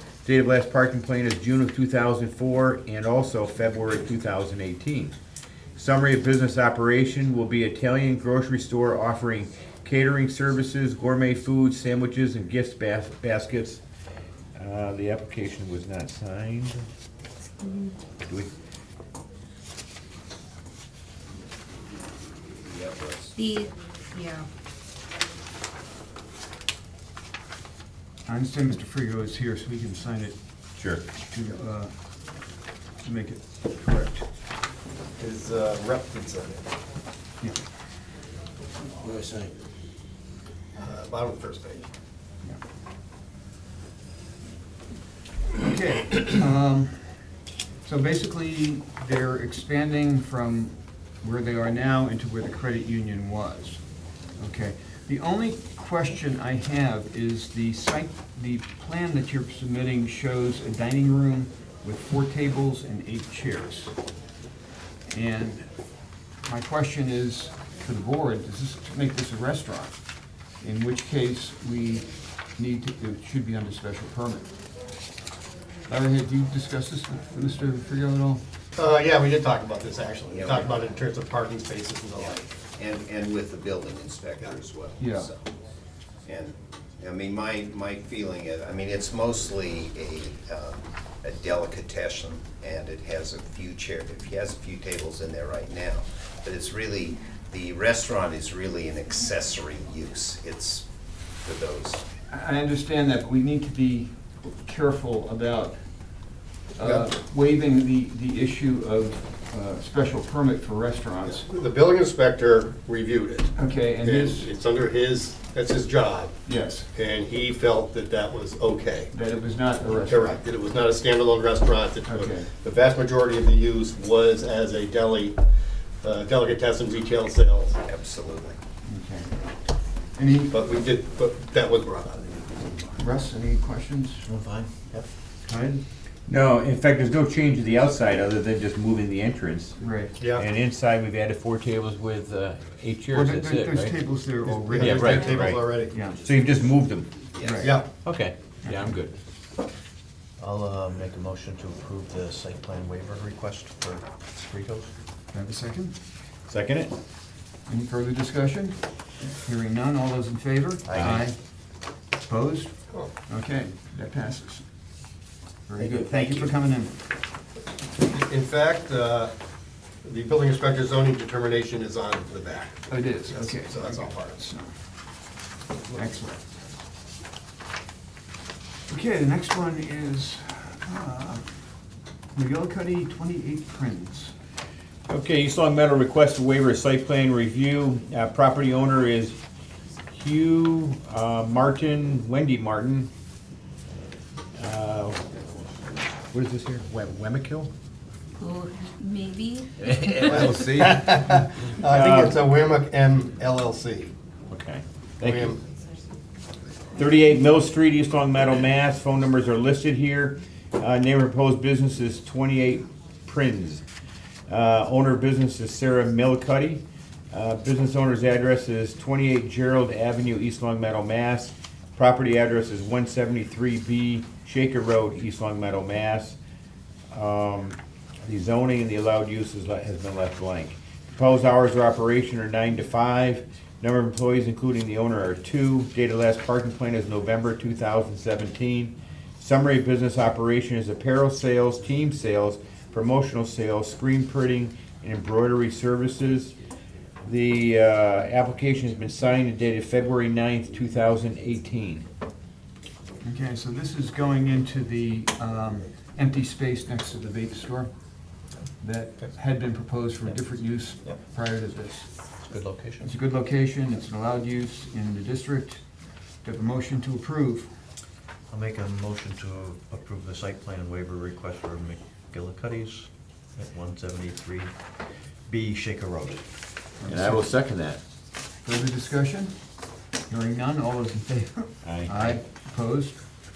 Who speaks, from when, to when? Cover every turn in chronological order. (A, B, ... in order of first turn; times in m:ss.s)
0:00.2-0:05.1 A
0:05.8-0:13.8 A
0:14.5-0:16.8 A
0:17.6-0:17.9 B
0:18.2-0:18.5 A
0:22.6-0:23.3 C
0:23.4-0:24.5 B
0:28.2-0:30.4 D
0:30.8-0:31.0 A
0:31.3-0:31.9 D
0:33.0-0:34.2 D
0:35.2-0:36.6 E
0:40.8-0:41.9 E
0:45.6-0:47.3 D
0:47.8-0:53.8 D
0:54.4-1:03.9 D
1:05.1-1:05.7 D
1:06.4-1:09.9 D
1:10.6-1:14.5 D
1:15.9-1:18.4 D
1:18.7-1:22.4 E
1:20.3-1:20.8 C
1:22.2-1:25.5 C
1:25.0-1:25.3 D
1:26.2-1:40.8 C
1:41.4-1:42.0 C
1:42.3-1:45.8 D
1:46.8-1:51.4 D
1:51.2-1:56.4 E
1:53.5-1:54.5 D
1:56.4-1:56.9 D
1:56.9-1:59.1 E
1:59.1-2:00.4 D
1:59.9-2:05.4 E
2:02.0-2:02.5 D
2:06.0-2:07.8 E
2:07.8-2:08.6 C
2:08.9-2:09.3 D
2:10.2-2:10.5 D
2:10.5-2:12.9 E
2:13.0-2:14.2 D
2:14.2-2:15.1 F
2:15.5-2:15.8 D
2:16.3-2:19.8 A
2:19.8-2:20.2 D
2:20.2-2:20.5 E
2:20.3-2:23.9 A
2:23.1-2:26.2 D
2:24.4-2:25.9 E
2:24.7-2:29.2 A
2:27.4-2:27.8 D
2:27.6-2:27.9 E
2:28.6-2:29.0 D
2:30.4-2:34.9 F
2:35.3-2:35.9 D
2:36.5-2:36.9 A
2:37.7-2:41.4 D
2:40.9-2:41.2 F
2:40.9-2:41.2 A
2:42.2-2:42.7 D
2:43.3-2:44.6 D
2:45.7-2:46.9 D
2:48.0-2:49.3 E
2:50.0-2:54.4 E
2:52.9-2:54.7 D
2:55.9-2:56.5 D
2:58.9-3:01.4 D
3:02.3-3:04.3 D
3:05.1-3:09.4 A
3:10.1-3:13.1 A
3:14.6-3:15.2 A
3:16.3-3:17.7 A
3:18.4-3:20.6 B
3:19.8-3:22.4 A
3:20.3-3:24.1 E
3:24.5-3:25.6 A
3:25.2-3:25.6 E
3:26.9-3:33.8 A
3:34.5-3:46.4 A
3:47.1-4:06.5 A
4:07.2-4:12.0 A
4:13.2-4:17.9 D
4:18.8-4:22.1 D
4:22.4-4:23.1 F
4:23.0-4:25.8 D
4:26.4-4:27.7 D
4:28.5-4:34.7 F
4:35.5-4:36.4 F
4:37.0-4:37.5 D
4:37.1-4:38.0 A
4:38.6-4:39.5 D
4:40.3-4:43.2 D
4:41.8-4:42.4 A